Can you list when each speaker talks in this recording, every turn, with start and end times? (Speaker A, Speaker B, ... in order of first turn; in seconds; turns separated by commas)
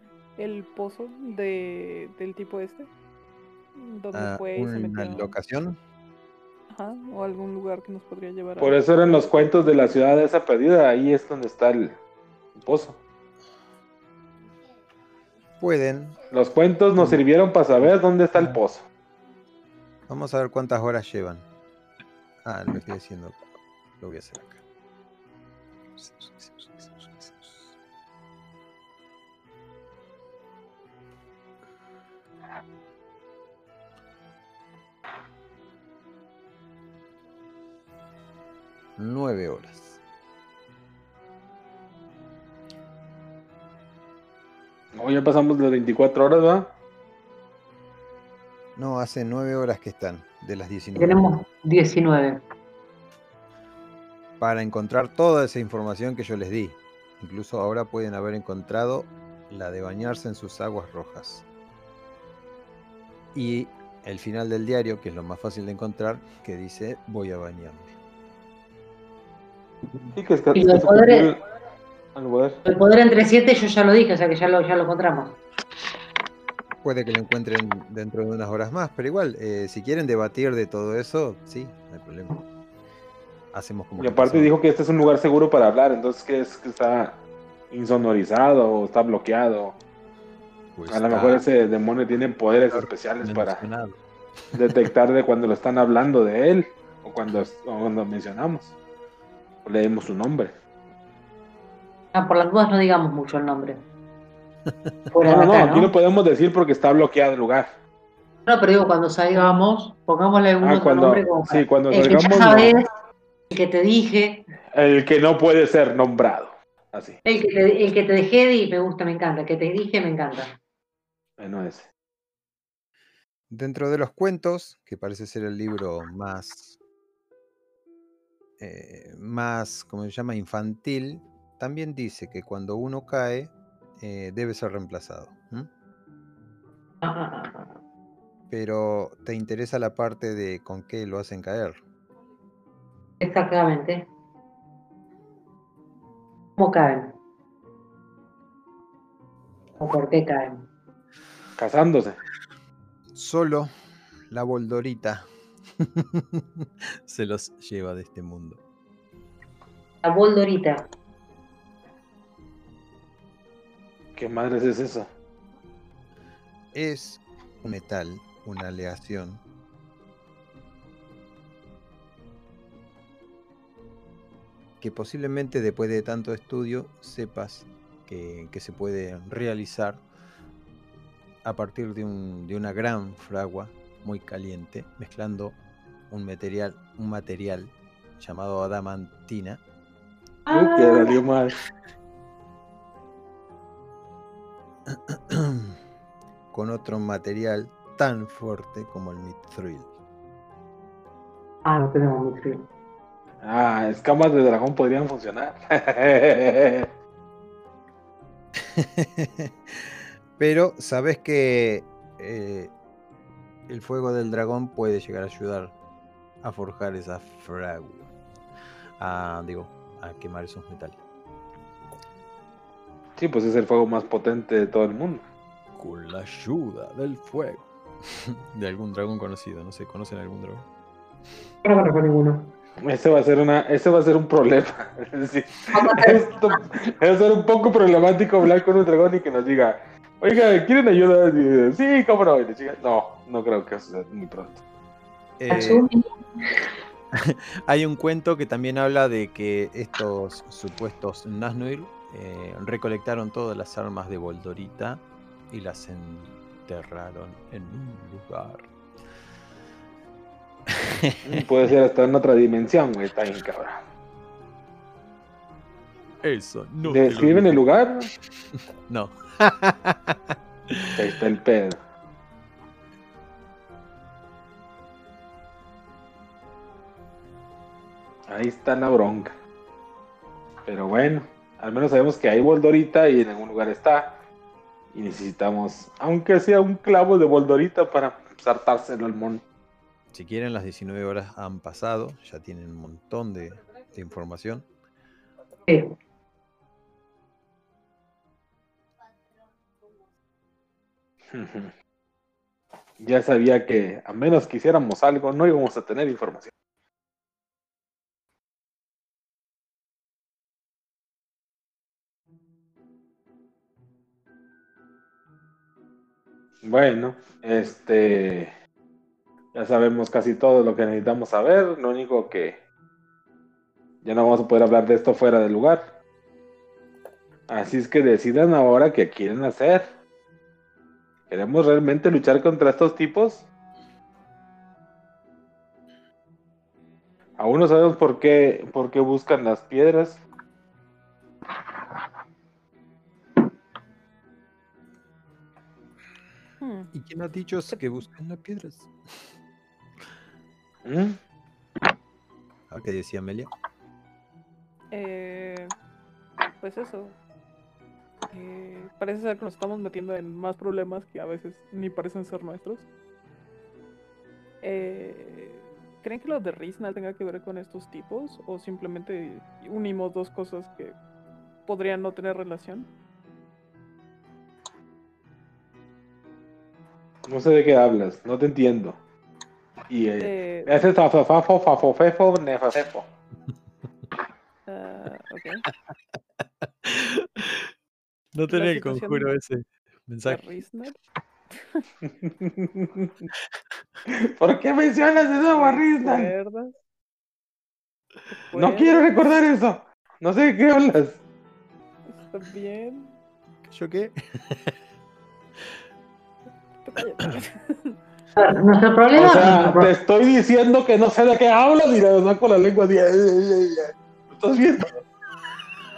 Speaker A: 0.4-2.9, Speaker A: 3.8-5.3, Speaker B: 4.1-5.8, Speaker A: 6.7-8.8, Speaker C: 8.6-12.0, Speaker C: 12.6-13.0, Speaker B: 15.6-16.2, Speaker C: 16.3-18.9, Speaker B: 20.1-21.4, Speaker B: 22.4-23.4, Speaker B: 24.0-24.6, Speaker B: 26.0-27.7, Speaker B: 39.0-40.0, Speaker C: 44.9-46.7, Speaker B: 48.8-51.4, Speaker D: 51.0-52.4, Speaker B: 54.4-61.5, Speaker B: 63.3-67.9, Speaker C: 70.2-71.4, Speaker D: 70.5-71.4, Speaker C: 72.2-72.6, Speaker D: 72.7-75.4, Speaker B: 76.8-82.4, Speaker B: 83.5-84.5, Speaker C: 84.0-89.8, Speaker B: 90.8-91.4, Speaker C: 90.9-93.6, Speaker B: 92.7-94.0, Speaker C: 94.5-98.8, Speaker C: 99.7-100.5, Speaker D: 102.1-103.8, Speaker D: 105.1-105.9, Speaker C: 105.2-107.8, Speaker D: 108.5-112.9, Speaker C: 110.6-112.8, Speaker D: 113.5-114.5, Speaker C: 114.7-117.2, Speaker D: 117.2-120.6, Speaker C: 121.4-121.9, Speaker B: 123.5-126.8, Speaker B: 128.6-135.7, Speaker D: 137.0-137.7, Speaker B: 138.5-141.8, Speaker D: 143.2-144.1, Speaker D: 146.6-147.2, Speaker D: 149.8-150.7, Speaker C: 151.6-152.2, Speaker B: 153.1-153.7, Speaker B: 154.3-155.3, Speaker B: 155.8-158.6, Speaker D: 160.0-160.9, Speaker C: 164.2-165.1, Speaker B: 166.7-169.4, Speaker B: 174.8-180.0, Speaker B: 181.4-185.6, Speaker B: 186.1-189.6, Speaker D: 190.5-191.2, Speaker C: 190.5-191.5, Speaker B: 194.9-195.8, Speaker B: 196.5-199.9, Speaker D: 201.6-202.7, Speaker C: 203.4-206.9, Speaker B: 208.6-212.7, Speaker B: 213.7-215.8, Speaker B: 216.4-218.1, Speaker B: 219.0-221.0, Speaker C: 223.2-225.2, Speaker B: 225.8-230.7, Speaker D: 231.6-232.5, Speaker C: 232.8-244.6, Speaker D: 235.7-236.3, Speaker B: 245.4-245.8, Speaker D: 245.5-246.7, Speaker B: 247.1-258.7, Speaker B: 260.7-261.2, Speaker C: 261.2-263.8, Speaker B: 266.2-267.6, Speaker C: 266.9-268.1, Speaker B: 268.9-270.9, Speaker C: 270.9-271.8, Speaker C: 278.3-279.4, Speaker C: 280.7-284.2, Speaker C: 284.9-289.4, Speaker B: 290.1-294.7, Speaker D: 295.7-295.9, Speaker C: 301.3-301.7, Speaker C: 303.0-306.5, Speaker C: 316.6-318.5, Speaker C: 319.5-322.6, Speaker C: 324.0-326.0, Speaker C: 327.5-329.9, Speaker C: 331.3-333.5, Speaker C: 337.4-340.2, Speaker A: 346.6-346.9, Speaker B: 346.9-348.9, Speaker A: 347.7-348.0, Speaker C: 350.8-351.2, Speaker B: 352.7-353.5, Speaker A: 354.9-355.7, Speaker A: 356.6-357.2, Speaker A: 358.3-362.9, Speaker A: 364.6-371.0, Speaker A: 371.6-372.9, Speaker C: 377.3-379.0, Speaker C: 379.9-383.1, Speaker A: 380.2-380.9, Speaker A: 384.7-385.6, Speaker B: 385.9-387.7, Speaker B: 388.4-390.4, Speaker A: 388.5-389.3, Speaker A: 390.2-391.0, Speaker C: 392.2-393.1, Speaker C: 394.3-396.3, Speaker A: 395.4-396.7, Speaker A: 398.3-399.0, Speaker C: 398.6-401.2, Speaker A: 402.1-403.1, Speaker B: 403.7-404.8, Speaker A: 406.8-407.9, Speaker D: 408.4-409.9, Speaker C: 409.1-415.1